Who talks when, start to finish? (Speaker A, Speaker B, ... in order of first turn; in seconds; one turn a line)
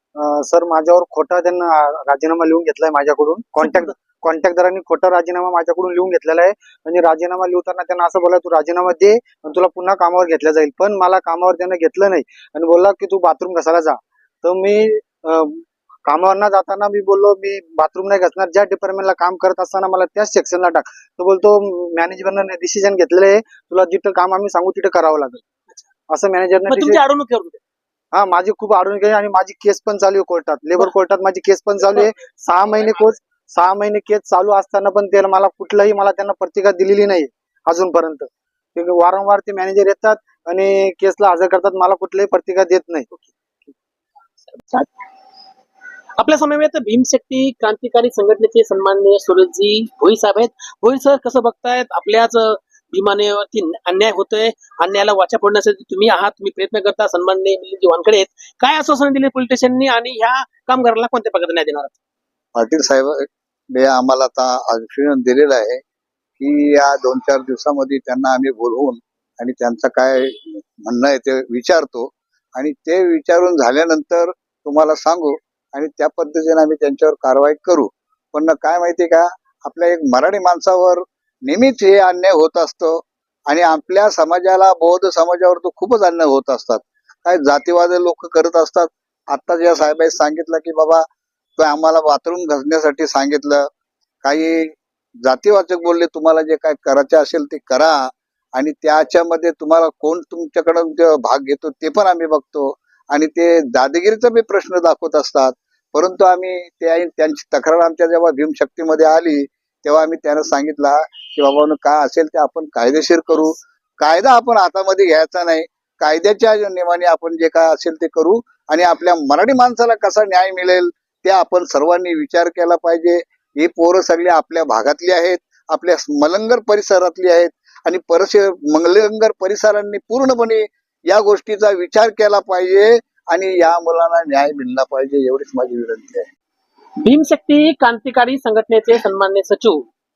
Speaker A: 0.2-25.4
Speaker A: 26.1-27.0
Speaker B: 26.7-27.6
Speaker A: 28.1-43.2
Speaker B: 44.6-44.9
Speaker B: 46.2-61.9
Speaker C: 62.5-65.8
Speaker C: 66.4-91.0
Speaker C: 91.6-93.7
Speaker C: 94.2-136.3
Speaker B: 137.0-139.8